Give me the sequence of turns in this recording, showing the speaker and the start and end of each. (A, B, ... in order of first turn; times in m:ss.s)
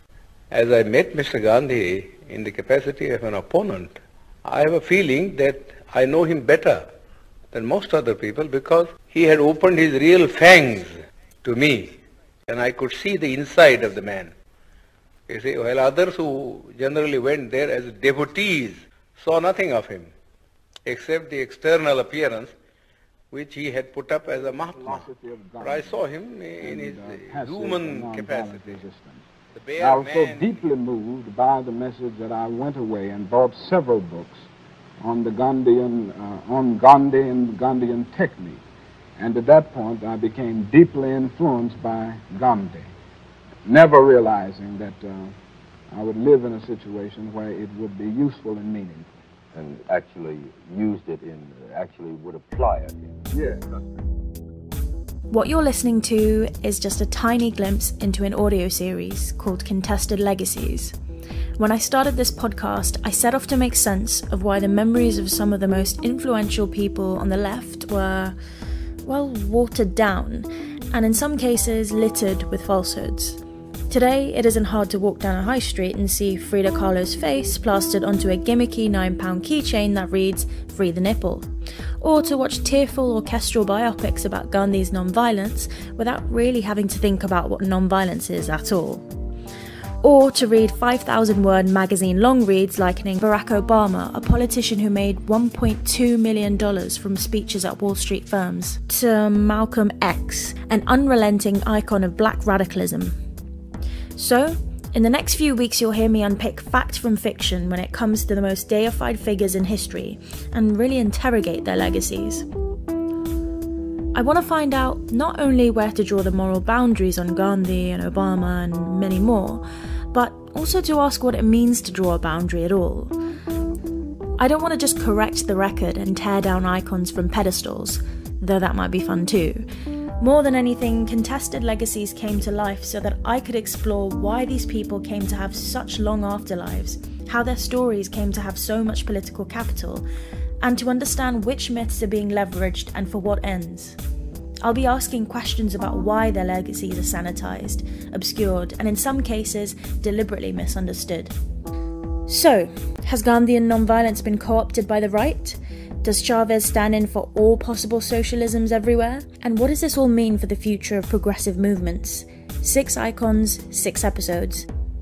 0:00.5-0:06.8 A
0:07.5-0:12.0 A
0:12.5-0:14.3 A
0:15.3-0:20.1 A
0:20.8-0:22.5 A
0:23.3-0:28.8 A
0:24.3-0:26.1 B
0:26.6-0:29.2 B
0:29.5-0:30.7 A
0:29.8-0:34.5 B
0:35.0-0:38.6 B
0:39.2-0:42.9 B
0:43.6-0:45.4 B
0:45.9-0:49.1 B
0:49.5-0:53.3 C
0:53.3-0:53.8 B
0:55.3-1:00.9 D
1:01.6-1:08.4 D
1:09.0-1:21.4 D
1:22.0-1:29.0 D
1:30.0-1:43.1 D
1:44.2-1:52.4 D
1:54.1-2:03.1 D
2:04.4-2:09.6 D
2:10.2-2:20.0 D
2:20.6-2:24.0 D
2:24.6-2:31.3 D
2:32.3-2:44.7 D